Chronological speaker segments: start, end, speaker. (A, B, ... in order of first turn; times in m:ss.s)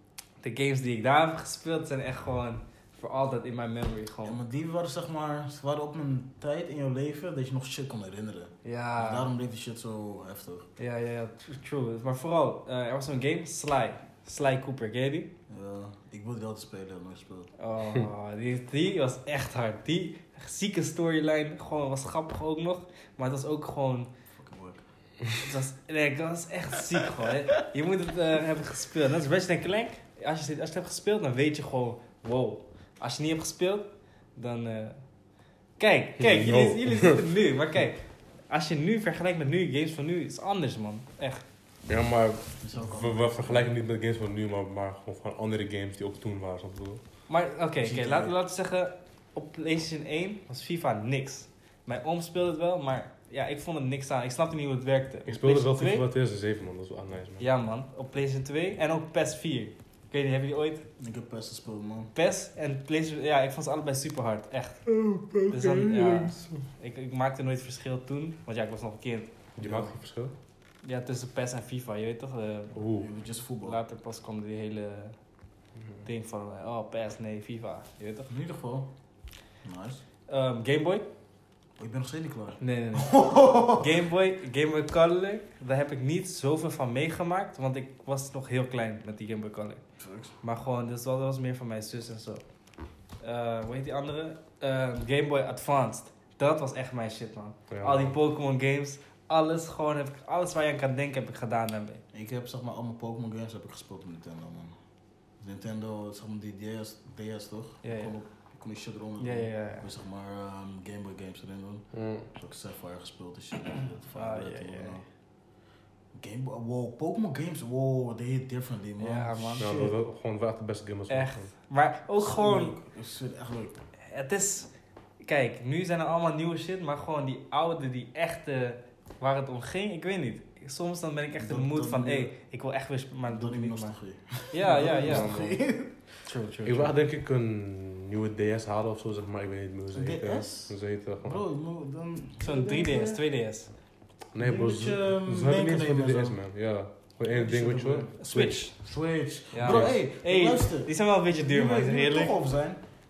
0:00.4-0:04.4 A
0:04.2-0:10.6 B
0:08.6-0:09.3 A
0:10.8-0:15.3 A
0:15.5-0:17.5 B
0:17.6-0:24.1 A
0:24.4-0:24.8 B
0:25.4-0:35.0 A
0:35.8-0:41.4 A
0:36.2-0:37.2 C
0:41.9-0:47.0 C
0:42.6-0:43.7 B
0:47.3-0:56.0 A
0:47.8-0:48.3 B
0:55.2-0:57.5 C
0:57.4-1:00.8 A
1:01.0-1:02.1 B
1:02.1-1:04.8 A
1:04.9-1:06.6 C
1:05.5-1:09.3 A
1:09.6-1:10.3 C
1:09.6-1:09.9 B
1:10.8-1:12.8 A
1:12.7-1:13.1 C
1:13.0-1:13.8 B
1:13.6-1:15.1 A
1:16.0-1:18.3 A
1:18.3-1:18.9 B
1:19.6-1:20.0 B
1:20.3-1:21.0 A
1:21.8-1:23.9 B
1:22.6-1:29.8 A
1:30.0-1:30.3 B
1:30.4-1:32.4 A
1:33.2-1:42.0 A
1:37.7-1:38.2 C
1:42.1-1:44.8 B
1:45.4-1:55.0 B
1:47.8-1:48.2 A
1:49.2-1:49.9 A
1:51.9-1:52.3 C
1:54.1-1:55.0 A
1:56.1-1:59.9 B
1:59.0-1:59.7 A
1:59.6-2:01.5 C
2:01.1-2:02.8 A
2:02.2-2:03.8 B
2:04.1-2:04.7 A
2:05.2-2:13.9 A
2:11.4-2:12.3 B
2:13.3-2:16.1 B
2:14.5-2:15.3 A
2:15.0-2:15.6 C
2:16.2-2:16.9 A
2:16.6-2:21.4 C
2:19.9-2:23.2 B
2:22.4-2:23.7 A
2:24.3-2:28.6 C
2:24.4-2:26.4 B
2:27.3-2:28.2 B
2:28.2-2:28.7 A
2:28.7-2:32.8 B
2:29.5-2:32.4 A
2:29.6-2:30.0 C